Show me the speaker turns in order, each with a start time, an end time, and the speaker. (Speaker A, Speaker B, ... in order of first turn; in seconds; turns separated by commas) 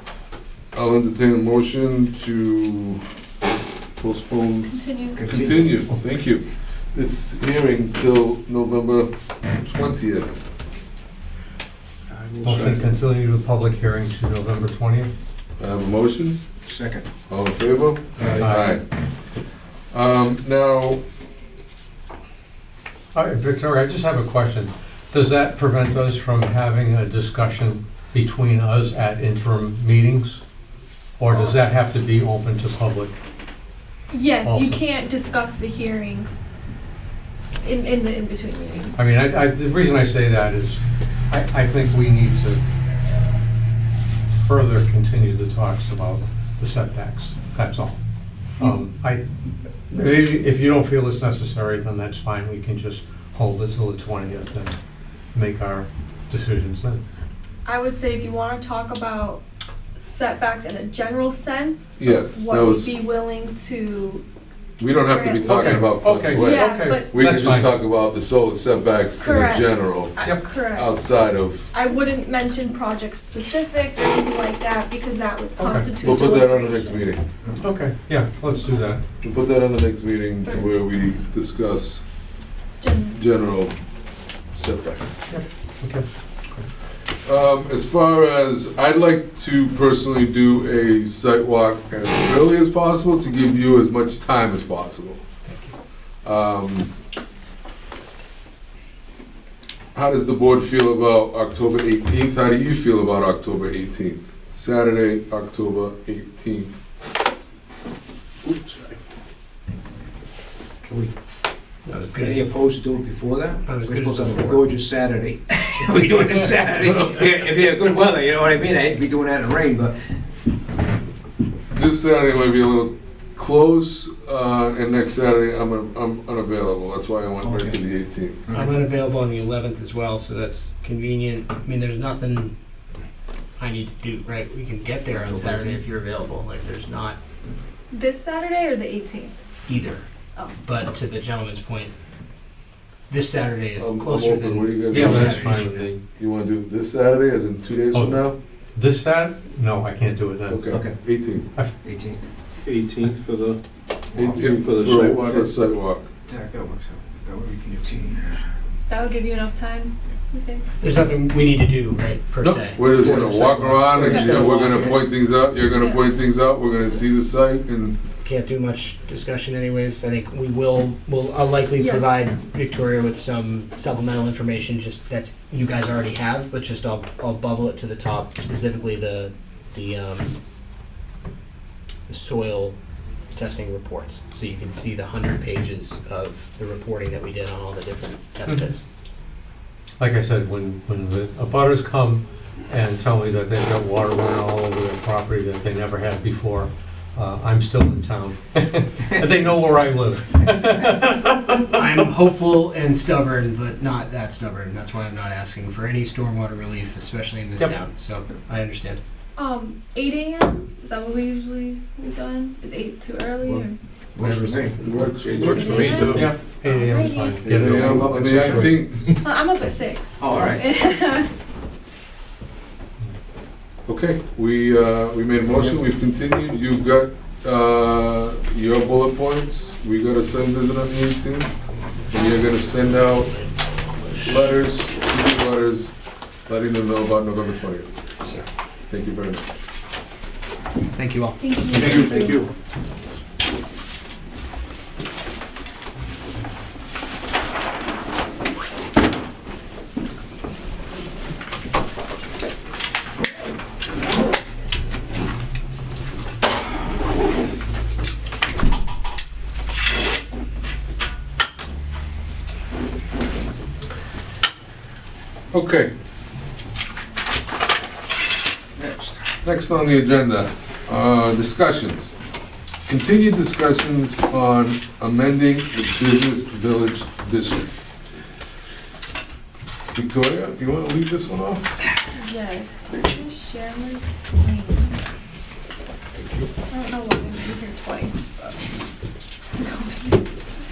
Speaker A: 0.7-3.0, Speaker A: 4.0-4.7, Speaker B: 4.7-5.3, Speaker C: 5.1-5.7, Speaker A: 5.2-10.3, Speaker C: 12.1-12.9, Speaker D: 12.4-15.1, Speaker A: 15.6-16.4, Speaker C: 16.6-17.1, Speaker A: 17.3-18.8, Speaker D: 18.4-18.8, Speaker A: 19.9-21.0, Speaker D: 23.1-30.4, Speaker D: 31.2-33.2, Speaker B: 31.3-31.6, Speaker B: 34.1-36.3, Speaker D: 34.4-34.8, Speaker B: 37.6-39.1, Speaker D: 39.0-42.6, Speaker D: 44.4-48.0, Speaker D: 48.6-49.2, Speaker D: 49.9-54.8, Speaker D: 55.3-57.0, Speaker B: 57.6-59.4, Speaker B: 60.0-64.2, Speaker A: 62.0-62.9, Speaker A: 64.8-71.7, Speaker B: 65.0-65.8, Speaker D: 65.5-67.8, Speaker B: 66.3-67.2, Speaker B: 69.2-71.0, Speaker B: 71.7-77.1, Speaker D: 75.6-76.2, Speaker A: 76.0-77.2, Speaker D: 77.6-79.0, Speaker A: 79.2-82.0, Speaker B: 82.8-83.2, Speaker A: 83.2-83.7, Speaker A: 84.5-85.2, Speaker D: 85.3-86.7, Speaker A: 87.2-95.2, Speaker E: 95.5-95.7, Speaker A: 96.2-96.9, Speaker A: 100.0-106.8, Speaker C: 108.4-109.0, Speaker C: 110.8-111.1, Speaker E: 111.9-112.4, Speaker C: 112.1-120.2, Speaker E: 113.7-114.6, Speaker A: 121.7-128.4, Speaker C: 127.4-127.8, Speaker C: 128.5-128.8, Speaker E: 128.5-132.5, Speaker E: 133.6-137.2, Speaker C: 135.1-135.8, Speaker B: 137.9-139.3, Speaker E: 139.7-140.0, Speaker E: 140.6-141.9, Speaker E: 143.1-145.9, Speaker A: 143.8-145.4, Speaker D: 144.9-146.0, Speaker A: 146.2-148.4, Speaker D: 147.9-150.6, Speaker A: 150.5-151.5, Speaker C: 150.7-151.0, Speaker C: 151.8-152.2, Speaker F: 152.6-153.6, Speaker A: 154.1-156.1, Speaker F: 154.4-155.5, Speaker C: 156.3-158.4, Speaker B: 158.9-160.7, Speaker E: 160.8-165.0, Speaker A: 162.4-168.0, Speaker B: 164.0-164.5, Speaker B: 165.8-166.0, Speaker E: 168.2-180.4, Speaker B: 171.8-172.3, Speaker E: 182.1-182.8, Speaker E: 183.3-188.8, Speaker D: 190.0-201.8, Speaker E: 201.8-209.0, Speaker B: 209.4-213.8, Speaker C: 213.4-216.3, Speaker A: 214.8-216.2, Speaker B: 215.4-217.4, Speaker D: 216.1-218.8, Speaker A: 217.5-219.0, Speaker F: 217.5-217.8, Speaker C: 217.8-219.2, Speaker B: 219.2-221.3, Speaker C: 220.2-220.7, Speaker A: 223.9-231.5, Speaker A: 232.1-233.4, Speaker A: 234.2-235.9, Speaker A: 236.5-237.9, Speaker A: 238.9-239.4, Speaker E: 240.9-242.3, Speaker B: 241.4-242.4, Speaker C: 241.8-242.4, Speaker A: 265.5-265.9, Speaker C: 268.8-269.2, Speaker A: 269.4-272.1, Speaker A: 272.9-277.7, Speaker A: 279.9-281.7, Speaker B: 282.1-285.0, Speaker B: 286.7-288.8, Speaker B: 289.4-290.3